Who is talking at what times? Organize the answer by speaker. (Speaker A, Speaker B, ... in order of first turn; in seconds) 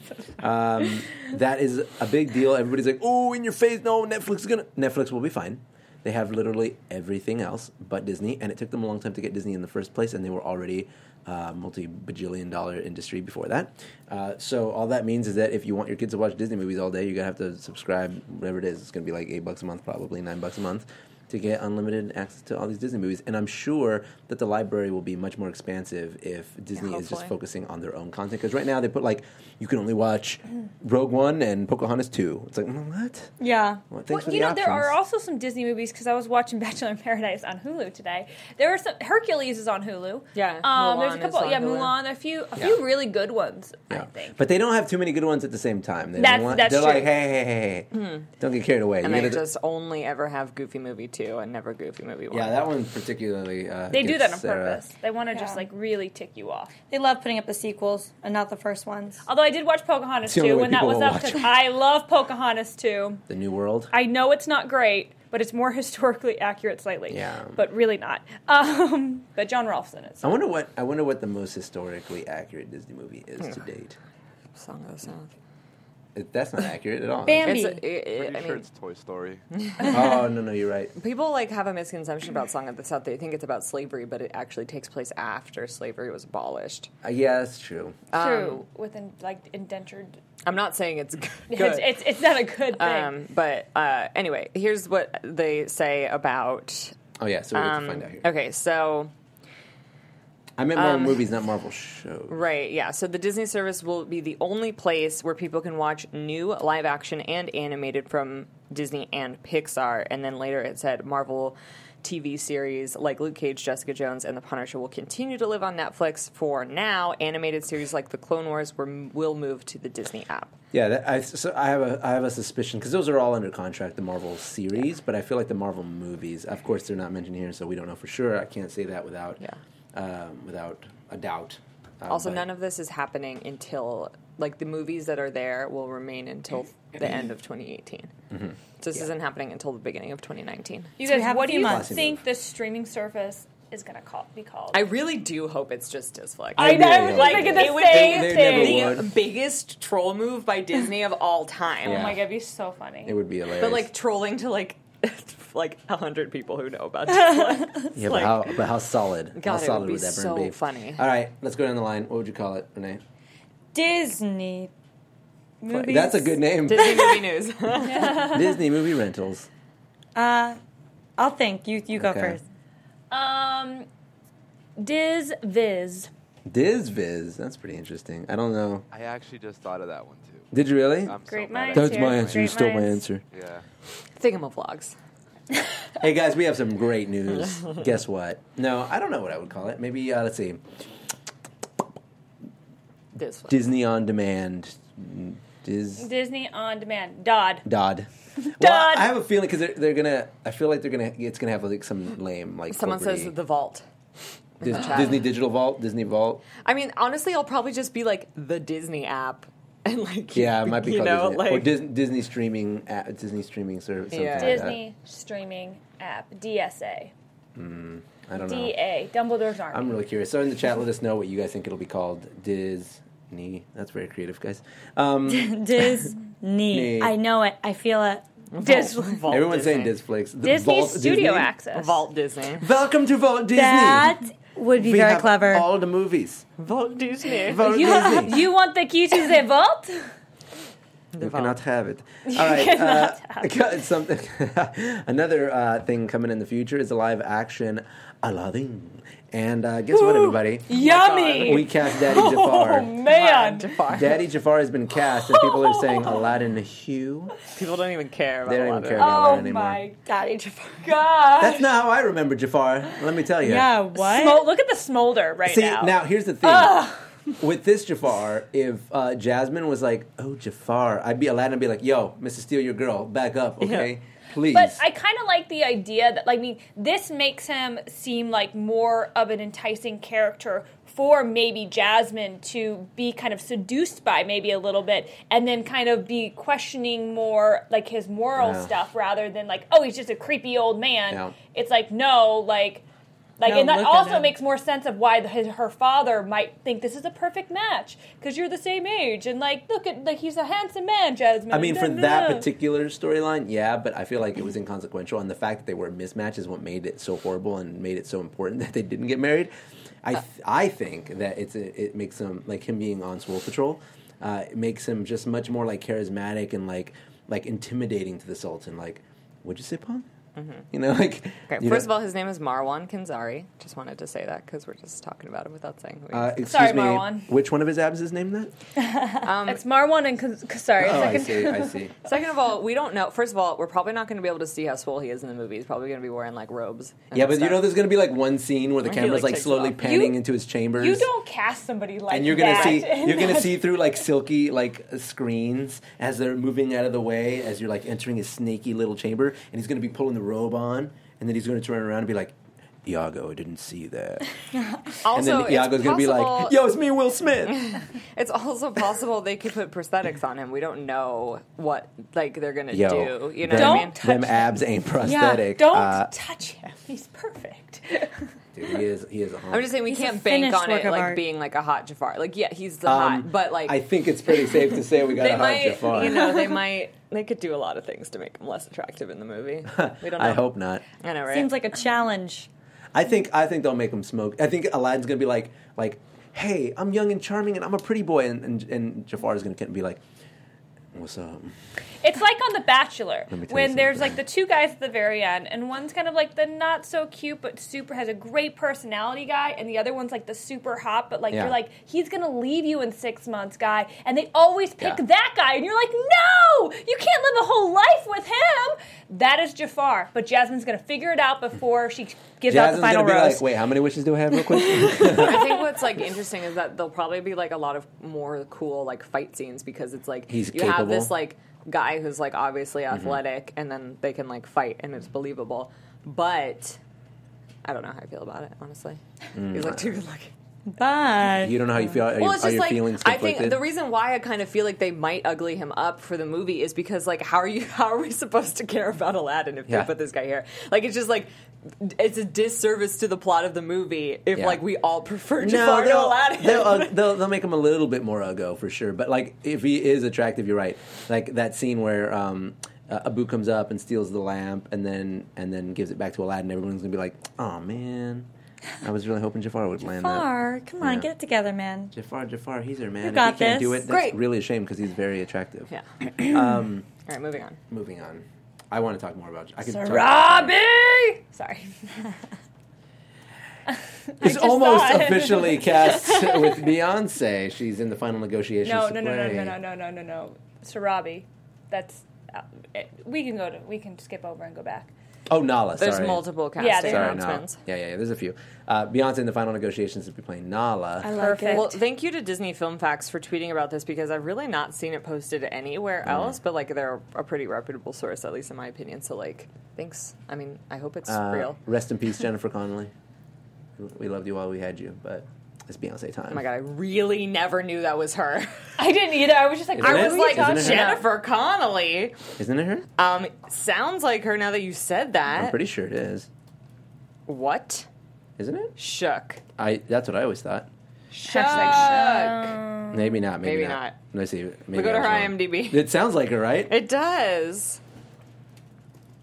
Speaker A: 0.4-33.3, 33.9-35.0, 43.9-49.4, 52.3-54.8, 60.2-61.5, 63.3-63.9, 67.1-67.6, 70.2-74.0, 76.2-77.6, 79.8-80.9, 87.0-88.0, 97.2-98.3, 100.6-102.4, 120.7-129.4, 129.9-132.5, 138.3-139.1, 141.6-142.2, 146.6-149.1, 151.8-152.2, 153.1-153.9, 157.9-163.0, 165.7-167.1, 168.1-169.5, 171.9-172.4, 176.5-178.8, 180.5-181.2, 181.7-183.2, 186.0-190.6, 193.5-196.1, 197.7-203.3, 204.6-206.5, 210.3-214.8, 217.6-218.8, 219.7-226.1, 226.7-227.2, 229.3-231.5, 232.6-234.2, 234.8-236.4, 237.5-238.5, 241.2-250.7, 251.4-252.9, 253.9-257.4, 258.5-259.8, 261.4-263.7, 265.4-274.8, 288.4-288.7, 301.5-309.5, 310.0-320.1, 320.7-321.9, 326.1-328.5, 330.8-331.9, 337.1-341.1, 342.1-354.3, 355.1-357.7, 362.7-366.1, 368.6-369.7, 372.9-376.4, 379.7-380.8, 382.9-390.0, 390.9-391.5, 393.3-394.2, 401.3-401.6, 412.5-415.6, 420.3-421.1, 429.4-430.0, 431.4-433.6, 444.4-444.6, 445.4-458.3, 458.8-461.1, 461.9-466.9, 467.7-470.6, 474.2-479.6, 485.3-486.3, 486.8-491.1, 496.1-496.4, 501.1-502.9, 503.8-506.4, 509.8-511.0, 512.4-512.9, 515.3-516.3, 518.4-518.8, 519.6-520.7, 522.9-526.7
Speaker B: 26.8-27.3, 40.4-42.0, 47.9-48.3, 49.0-52.6, 74.6-75.3, 77.4-78.7, 79.5-80.2, 81.0-86.9, 88.1-88.6, 90.5-97.0, 97.5-99.1, 100.8-101.2, 102.3-120.5, 132.1-138.1, 138.8-140.9, 144.7-152.2, 153.6-158.6, 159.4-161.0, 166.7-168.4, 184.2-184.9, 193.2-193.7, 202.7-203.8, 204.6-205.3, 206.6-211.8, 214.1-214.7, 228.5-229.9, 231.7-232.7, 236.6-238.1, 241.1-241.6, 250.7-251.7, 253.0-254.2, 257.5-259.2, 273.6-273.9, 320.4-320.7, 321.5-326.3, 329.2-329.6, 332.1-337.8, 338.8-339.8, 355.0-356.6, 357.5-364.0, 369.5-381.5, 414.9-426.8, 427.6-429.0, 429.5-430.3, 432.0-446.9, 463.9-464.2, 467.1-467.6, 485.8-487.6, 491.5-501.6, 506.3-508.7, 509.8-512.2, 513.0-515.6, 517.3-517.9, 518.8-519.4, 521.1-522.6, 523.4-524.0, 524.7-525.9, 526.7-527.8
Speaker C: 33.4-33.8, 55.3-55.6, 56.9-59.2, 77.3-77.8, 141.0-141.9, 163.7-164.7, 165.6-166.4, 170.2-170.6, 171.2-172.4, 225.3-228.2, 233.5-235.7, 260.1-261.0, 263.4-264.5, 293.4-294.4, 365.1-365.4, 369.9-371.2, 381.3-382.5, 430.7-431.6, 459.9-461.9, 463.0-463.9, 491.0-491.8
Speaker D: 34.1-44.4, 46.2-47.1, 53.9-56.7, 59.3-63.2, 63.9-70.4, 88.2-90.2, 91.5-93.1, 141.0-144.8, 146.6-149.0, 151.8-153.2, 167.8-168.5, 173.1-173.9, 174.8-176.1, 181.3-183.0, 196.0-197.7, 198.6-199.1, 214.4-217.1, 218.4-219.9, 228.6-229.3, 230.4-232.0, 237.6-240.1, 242.3-243.6, 249.9-253.8, 255.2-256.3, 259.0-260.0, 260.8-261.7, 264.0-267.1, 274.5-292.8, 293.4-302.5, 326.5-327.3, 329.5-331.8, 339.8-340.2, 340.8-343.7, 363.5-364.6, 365.1-368.3, 392.0-413.5, 469.7-472.1, 474.2-476.6, 478.6-484.9, 486.6-487.2, 491.1-491.8, 508.8-511.1, 521.1-523.2
Speaker E: 78.1-79.4, 178.9-182.5, 183.3-183.6